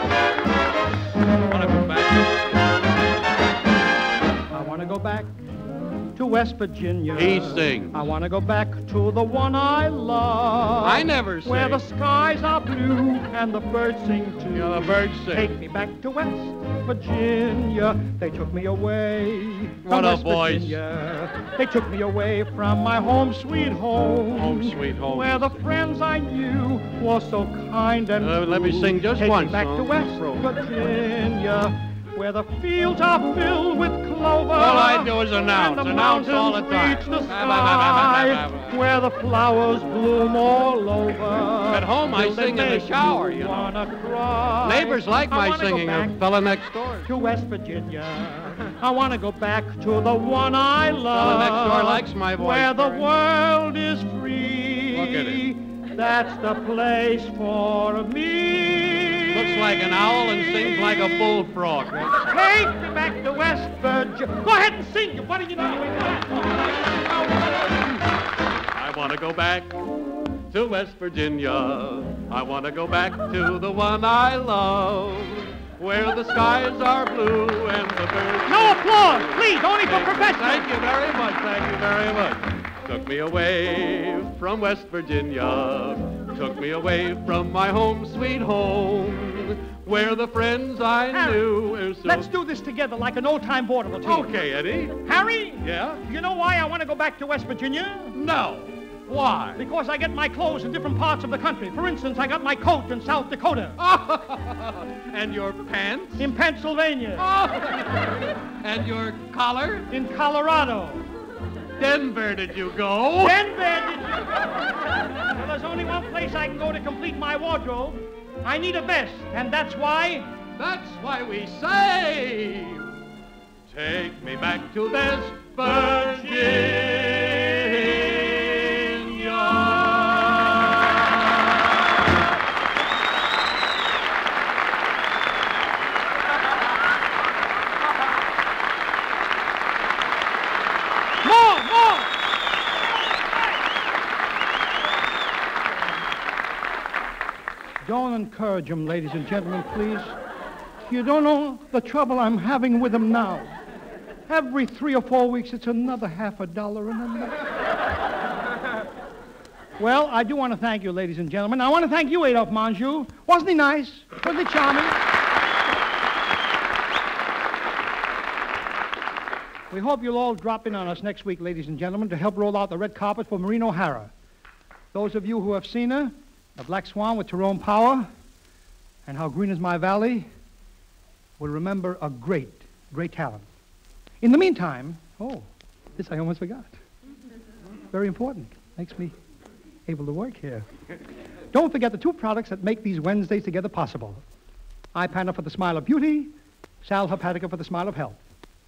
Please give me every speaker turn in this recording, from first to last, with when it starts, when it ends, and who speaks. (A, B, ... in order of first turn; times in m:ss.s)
0:01.5-0:02.3 A
0:04.5-0:05.3 B
0:06.1-0:46.2 B
0:07.2-0:08.1 A
0:10.8-0:11.8 A
0:14.5-0:15.5 A
0:19.8-0:20.8 A
0:24.3-0:25.6 A
0:28.2-0:30.5 A
0:34.5-0:38.8 A
0:41.7-0:43.8 A
0:44.6-0:47.1 A
0:47.0-1:01.3 B
0:51.1-0:53.1 A
0:54.9-0:55.5 A
0:59.3-1:02.4 A
1:02.2-1:07.0 B
1:08.7-1:09.8 A
1:10.5-1:32.3 A
1:18.4-1:20.7 B
1:31.1-1:31.5 B
1:32.0-1:34.4 B
1:34.0-1:35.0 A
1:35.0-1:38.2 B
1:35.6-1:36.0 A
1:38.1-1:39.6 A
1:39.6-1:43.8 B
1:43.8-1:46.3 A
1:46.2-1:47.2 B
1:47.2-1:49.9 A
1:49.9-1:51.0 B
1:51.8-1:53.4 A
1:53.2-2:00.3 B
2:00.6-2:03.0 A
2:03.7-2:11.4 A
2:21.2-2:22.1 B
2:27.8-2:30.2 B
2:30.8-2:33.5 B
2:34.3-2:37.4 B
2:39.8-2:45.0 B
2:49.7-2:54.1 B
2:54.9-2:58.1 B
2:59.0-3:00.3 B
3:01.4-3:03.5 B
3:04.2-3:06.7 B
3:07.9-3:09.1 B
3:09.9-3:10.7 B
3:11.5-3:14.2 B
3:14.9-3:16.3 B
3:16.8-3:18.2 B